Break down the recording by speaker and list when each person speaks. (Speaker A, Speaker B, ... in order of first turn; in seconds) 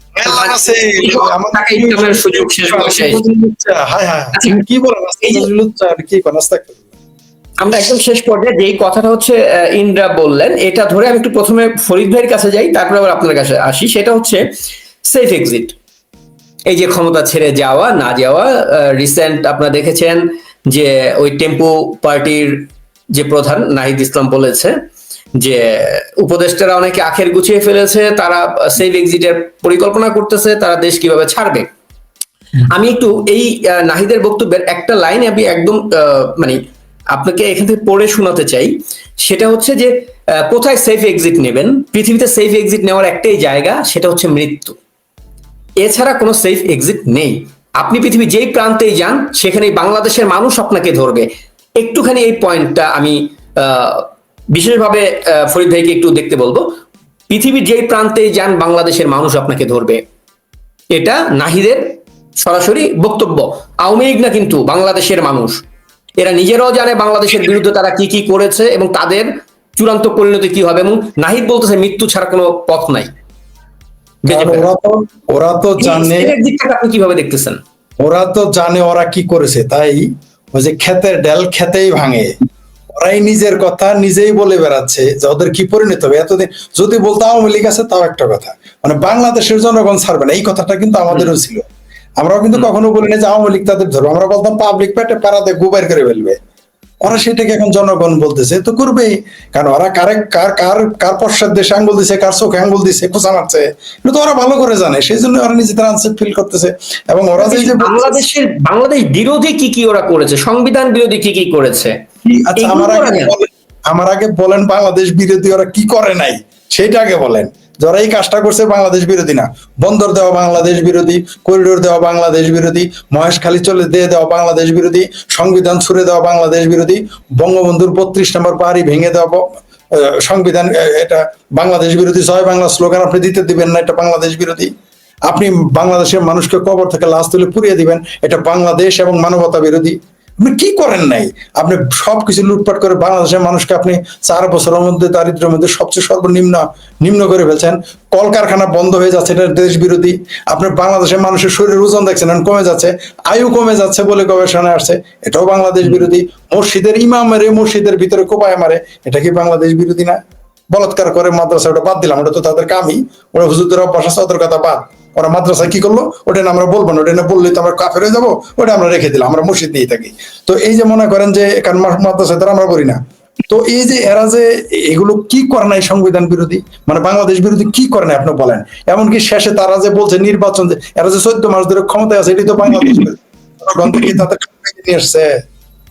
Speaker A: 0.1-6.9, 74.3-76.3, 78.0-82.3, 82.9-91.7, 92.2-96.4, 97.0-108.2, 112.2-134.7, 135.2-160.2, 160.7-185.4
Speaker B: 0.2-3.2, 4.3-4.6, 5.2-5.5, 7.6-14.4, 15.0-15.8, 16.7-24.8, 25.4-31.7, 32.7-36.6, 37.1-44.8, 45.8-56.6, 57.3-60.0, 60.9-65.6, 66.2-73.1, 74.2-74.7, 75.8-77.6, 107.4-111.9, 112.6-113.3